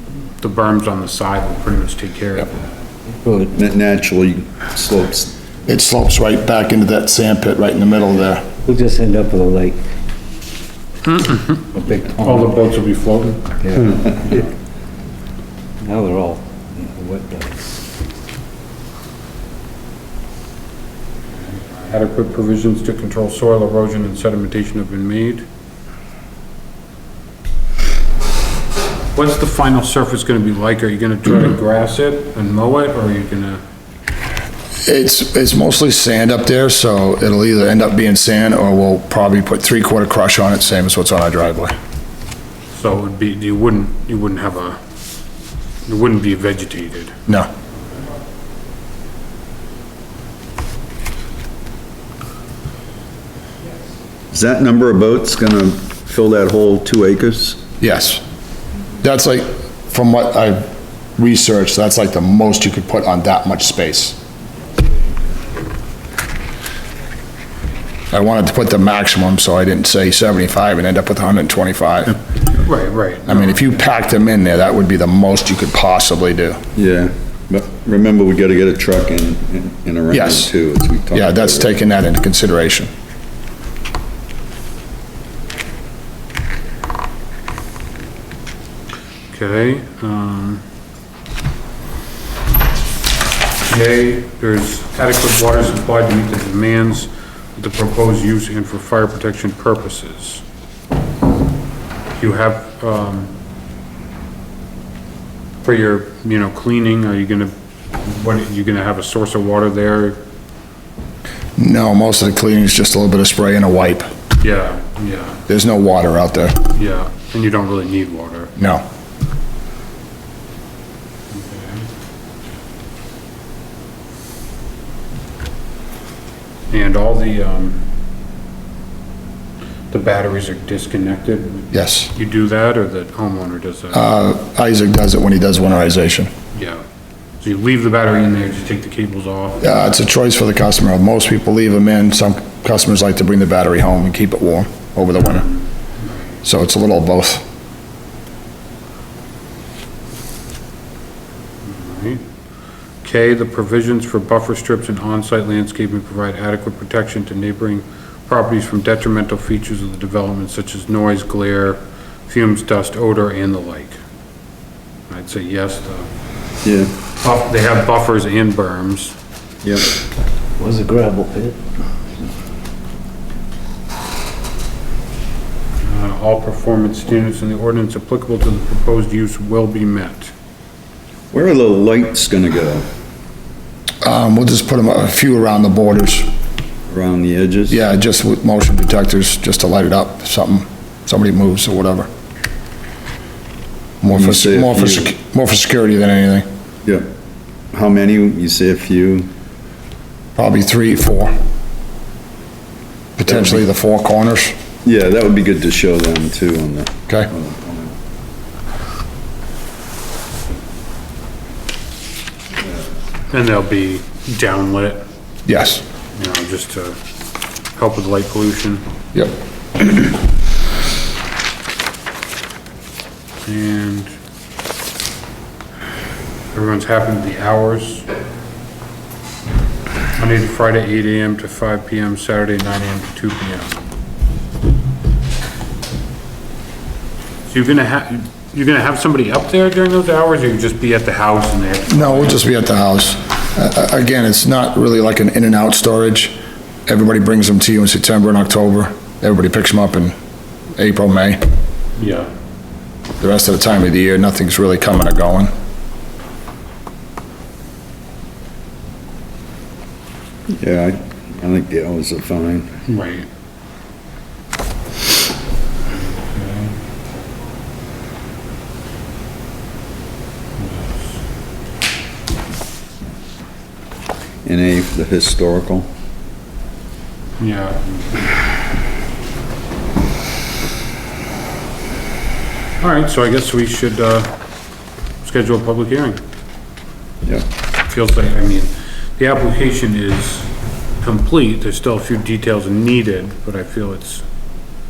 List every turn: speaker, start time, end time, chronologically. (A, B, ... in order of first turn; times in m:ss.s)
0:00.4-0:02.5 A
0:03.2-0:03.5 B
0:03.5-0:05.3 C
0:05.6-0:08.5 D
0:08.6-0:09.9 B
0:11.0-0:14.4 A
0:11.7-0:12.5 B
0:13.6-0:14.3 B
0:15.8-0:17.8 B
0:21.4-0:25.4 A
0:29.1-0:33.6 A
0:34.8-0:41.7 D
0:42.7-0:44.8 A
0:45.8-0:47.2 A
0:54.3-0:57.6 C
0:57.8-0:58.2 D
0:59.0-1:00.6 D
1:01.2-1:04.2 D
1:08.1-1:12.2 D
1:12.6-1:13.6 A
1:13.3-1:16.6 D
1:16.7-1:21.7 C
1:20.1-1:20.5 D
1:21.1-1:22.9 D
1:29.3-1:30.6 A
1:33.6-1:40.4 A
1:42.1-1:43.3 A
1:45.6-1:50.2 A
1:51.6-1:54.1 D
1:54.4-1:55.4 A
1:55.5-1:56.6 D
1:56.7-1:58.5 A
1:58.6-1:58.8 D
2:01.3-2:01.9 A
2:06.7-2:07.8 A
2:09.9-2:14.0 A
2:11.7-2:12.1 D
2:13.9-2:16.3 D
2:16.5-2:16.8 A
2:17.4-2:19.6 A
2:19.6-2:25.5 D
2:26.0-2:26.3 A
2:26.4-2:27.4 D
2:31.6-2:32.2 A
2:33.0-2:44.0 A
2:45.1-2:46.1 A
2:46.6-2:46.9 C
2:47.2-2:49.1 A
2:50.6-2:51.6 B
2:55.8-3:00.3 A
3:01.3-3:02.9 C
3:04.0-3:06.3 D
3:06.9-3:07.8 C
3:07.7-3:12.1 D
3:14.0-3:16.5 D
3:14.1-3:15.1 C
3:17.7-3:19.3 C
3:20.4-3:21.3 D
3:23.2-3:24.5 D
3:23.3-3:23.6 C
3:24.8-3:27.9 C
3:33.3-3:35.0 A
3:35.4-3:35.8 D
3:36.1-3:37.0 A
3:37.7-3:38.8 A
3:43.4-3:44.2 A
3:46.5-3:48.1 A
3:50.2-3:53.9 A
3:57.5-4:02.4 A
4:01.9-4:06.4 D
4:06.9-4:10.1 D
4:10.8-4:11.5 D
4:12.0-4:12.3 A
4:13.2-4:15.5 D
4:20.5-4:22.7 C
4:22.9-4:23.3 A
4:25.9-4:26.7 A
4:30.6-4:31.2 A
4:34.4-4:35.9 C
4:37.4-4:38.4 A
4:42.8-4:44.3 A
4:45.2-4:46.2 A
4:47.9-4:50.5 A
4:51.0-4:54.2 A